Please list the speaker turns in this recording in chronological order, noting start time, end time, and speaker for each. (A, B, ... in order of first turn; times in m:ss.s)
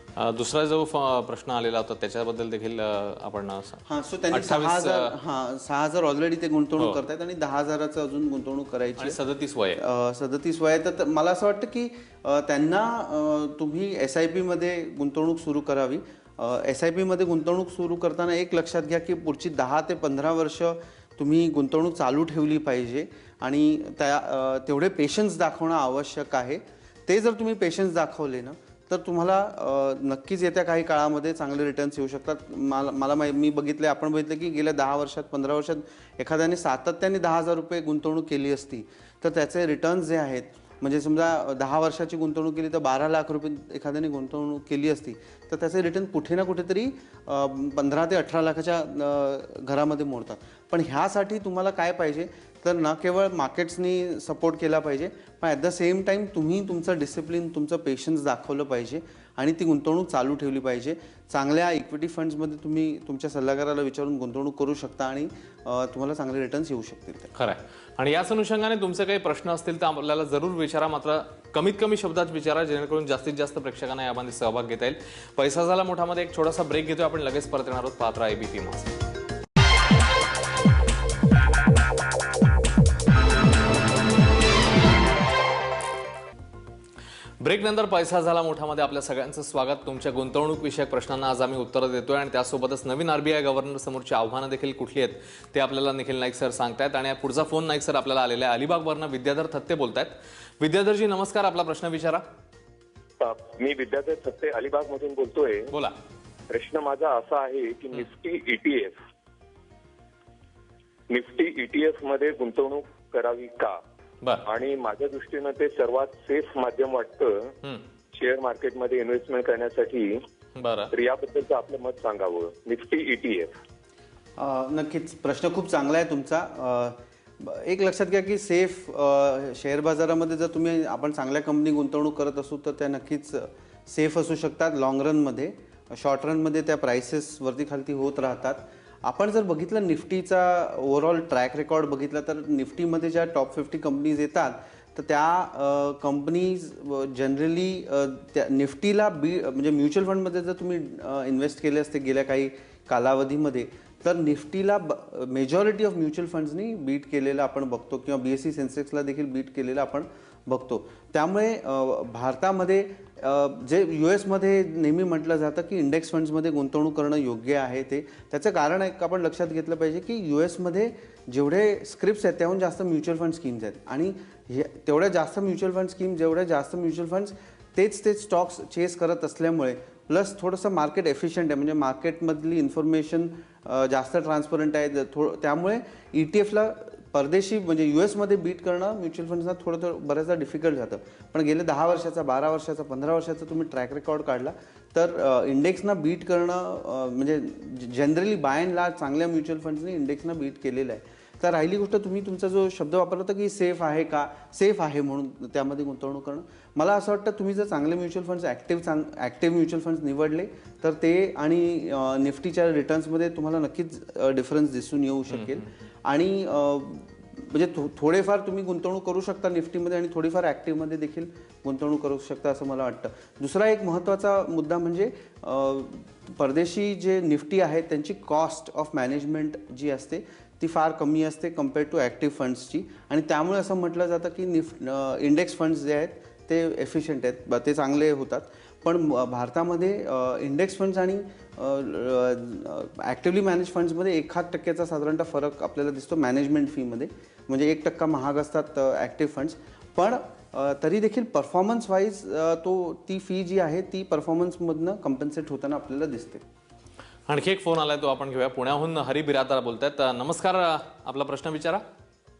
0:00.2-0:05.1 A
0:03.9-0:09.2 B
0:09.0-0:09.8 A
0:09.8-1:07.3 B
1:07.4-1:18.9 A
1:27.4-1:42.2 A
1:43.2-1:45.7 C
1:46.5-1:48.9 C
1:51.1-1:53.8 C
1:54.4-1:57.4 C
1:58.2-2:00.2 C
2:00.6-2:00.9 A
2:00.9-2:03.5 C
2:04.4-4:16.4 B
3:35.3-3:35.6 A
4:17.3-4:21.8 A